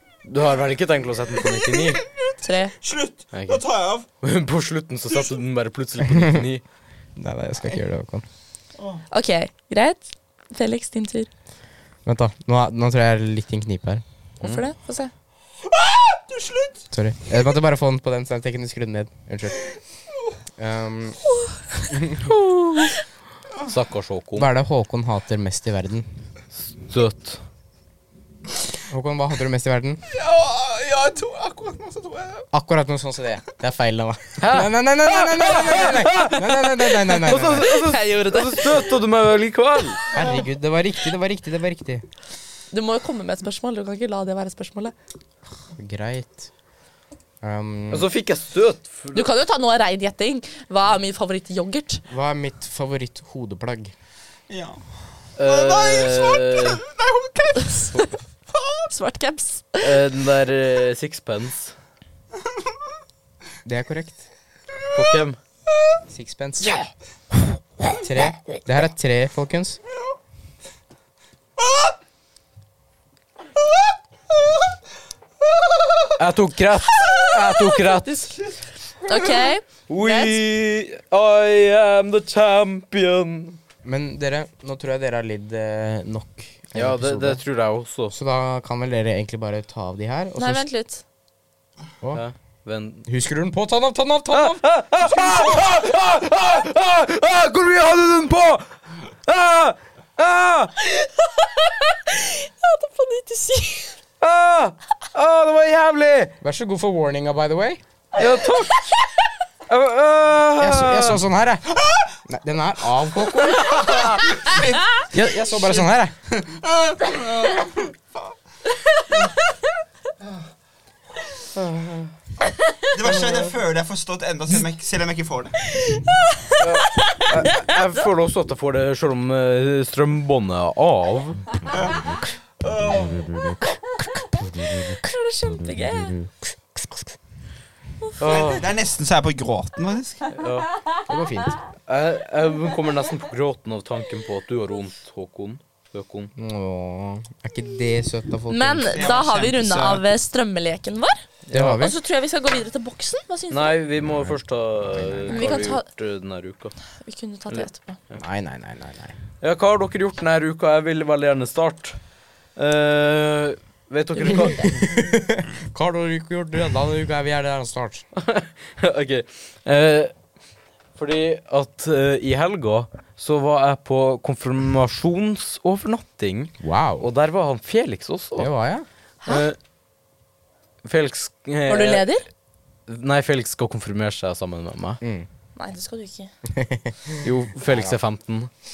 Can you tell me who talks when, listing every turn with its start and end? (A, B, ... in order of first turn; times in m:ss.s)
0:00.3-0:02.0 A
0:01.4-0:04.1 B
0:02.4-0:02.7 C
0:03.3-0:03.6 A
0:04.2-0:06.6 A
0:06.1-0:06.4 D
0:07.2-0:08.2 D
0:08.8-0:09.0 B
0:09.1-0:11.3 C
0:12.0-0:14.0 D
0:14.4-0:15.1 C
0:15.7-0:16.9 B
0:16.9-0:19.7 D
0:20.6-0:21.2 D
0:21.4-0:23.0 C
0:21.9-0:22.3 D
0:23.6-0:24.5 A
0:24.4-0:26.1 D
0:26.8-0:27.4 A
0:28.9-0:30.0 D
0:30.1-0:32.5 B
0:32.5-0:37.8 D
0:34.4-0:40.1 A
0:37.6-0:39.0 C
0:40.1-0:42.0 D
0:42.7-0:44.9 C
0:45.8-0:46.5 D
0:47.4-0:48.1 D
0:47.9-0:49.3 A
0:49.1-0:52.0 C
0:52.1-0:53.9 D
0:54.5-0:54.8 B
0:55.4-0:56.8 A
0:55.4-0:58.8 B
0:58.9-1:00.0 C
0:59.8-1:01.8 A
1:03.6-1:04.2 D
1:04.9-1:05.4 A
1:06.1-1:06.8 D
1:08.0-1:09.8 D
1:15.8-1:16.1 B
1:16.2-1:18.3 A
1:18.0-1:18.3 C
1:19.0-1:20.4 C
1:19.9-1:23.6 A
1:23.8-1:27.4 D
1:26.7-1:28.2 A
1:28.1-1:30.7 D
1:30.4-1:31.0 C
1:32.1-1:33.0 A
1:33.1-1:35.8 D
1:34.3-1:40.8 A
1:41.0-1:44.0 C
1:44.2-1:46.4 A
1:46.4-1:47.8 D
1:48.2-1:49.0 A
1:49.7-1:51.2 A
1:50.6-1:51.7 D
1:52.2-1:53.9 D
1:53.7-1:54.2 A
1:54.0-1:55.1 B
1:55.1-1:56.2 D
1:56.3-1:57.9 B
2:01.6-2:02.1 A
2:02.9-2:05.6 B
2:05.7-2:07.8 C
2:06.6-2:11.6 A
2:11.7-2:13.5 B
2:14.9-2:16.2 C
2:16.2-2:17.0 D
2:18.1-2:18.5 C
2:18.2-2:18.7 A
2:18.3-2:20.3 B
2:20.3-2:20.7 A
2:21.1-2:21.6 D
2:21.9-2:26.3 A
2:26.4-2:29.2 D
2:28.5-2:31.2 C
2:28.9-2:30.0 B
2:31.5-2:31.8 A
2:31.5-2:32.0 D
2:31.8-2:33.8 C
2:33.5-2:36.8 A
2:35.0-2:35.6 D
2:35.3-2:35.9 C
2:37.0-2:38.0 C
2:37.5-2:38.2 A
2:38.1-2:39.2 D
2:39.4-2:42.0 A
2:42.6-2:44.9 A
2:44.2-2:44.7 C
2:44.6-2:48.1 D
2:48.2-2:50.1 A
2:51.0-2:58.5 A
2:56.6-2:57.1 D
2:58.4-2:58.9 D
2:59.3-2:59.6 A
3:00.8-3:02.1 A
3:01.7-3:02.3 C
3:02.9-3:05.0 A
3:05.0-3:05.3 D
3:05.6-3:06.3 C
3:06.5-3:08.0 D
3:07.2-3:08.5 A